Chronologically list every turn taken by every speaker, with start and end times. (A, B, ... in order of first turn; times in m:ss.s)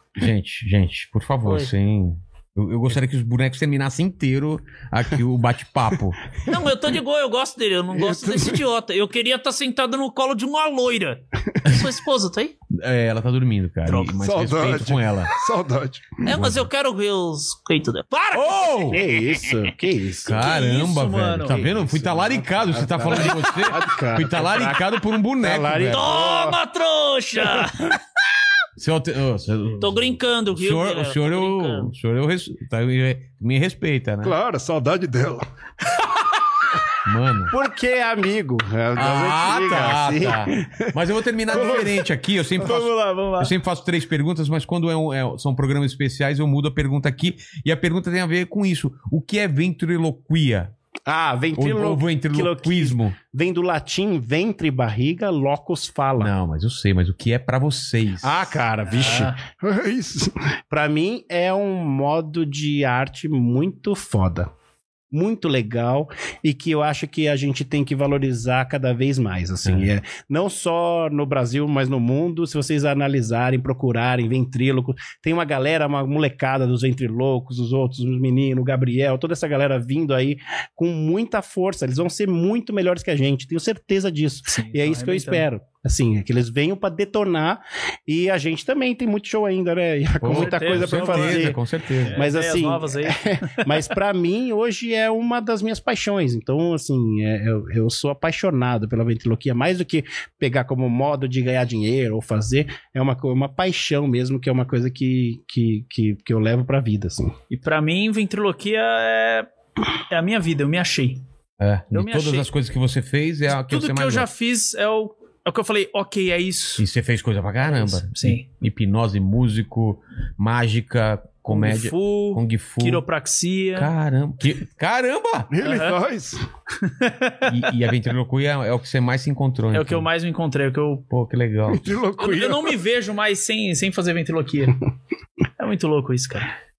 0:00.2-0:06.2 A
0:06.4-0:12.5 B
0:08.0-0:08.6 C
0:12.7-0:15.3 A
0:13.8-0:14.1 B
0:14.2-0:16.4 C
0:16.2-0:19.7 B
0:16.3-0:16.7 A
0:18.3-0:19.0 A
0:18.9-0:20.4 D
0:20.2-0:26.1 A
0:20.3-0:21.6 B
0:21.4-0:26.6 D
0:25.9-0:28.0 B
0:28.8-0:34.4 A
0:29.8-0:31.9 B
0:34.2-0:35.4 C
0:37.0-0:37.5 A
0:37.5-0:40.9 D
0:38.9-0:50.7 A
0:41.5-0:42.0 C
0:41.6-0:41.8 D
0:42.6-0:43.5 D
0:51.0-0:56.3 D
0:51.6-0:53.2 A
0:56.2-0:58.5 A
0:58.2-0:59.4 D
0:58.9-0:59.4 B
0:59.6-1:00.3 C
1:00.7-1:04.5 D
1:05.1-1:31.6 D
1:09.6-1:09.9 A
1:24.5-1:25.4 B
1:30.2-1:32.2 A
1:30.2-1:33.8 B
1:32.1-1:47.4 D
1:47.5-1:49.5 B
1:50.1-1:51.2 B
1:51.6-1:54.3 A
1:51.9-1:52.5 B
1:53.5-1:56.8 B
1:56.8-2:03.0 A
1:57.7-1:58.5 B
2:01.5-2:03.9 B
2:03.7-2:05.5 A
2:05.5-2:06.4 C
2:05.6-2:06.0 B
2:06.8-2:07.5 B
2:07.5-2:10.1 A
2:09.7-2:11.0 B
2:11.1-2:12.0 A
2:11.7-2:12.8 C
2:12.2-2:14.8 B
2:15.6-2:16.5 B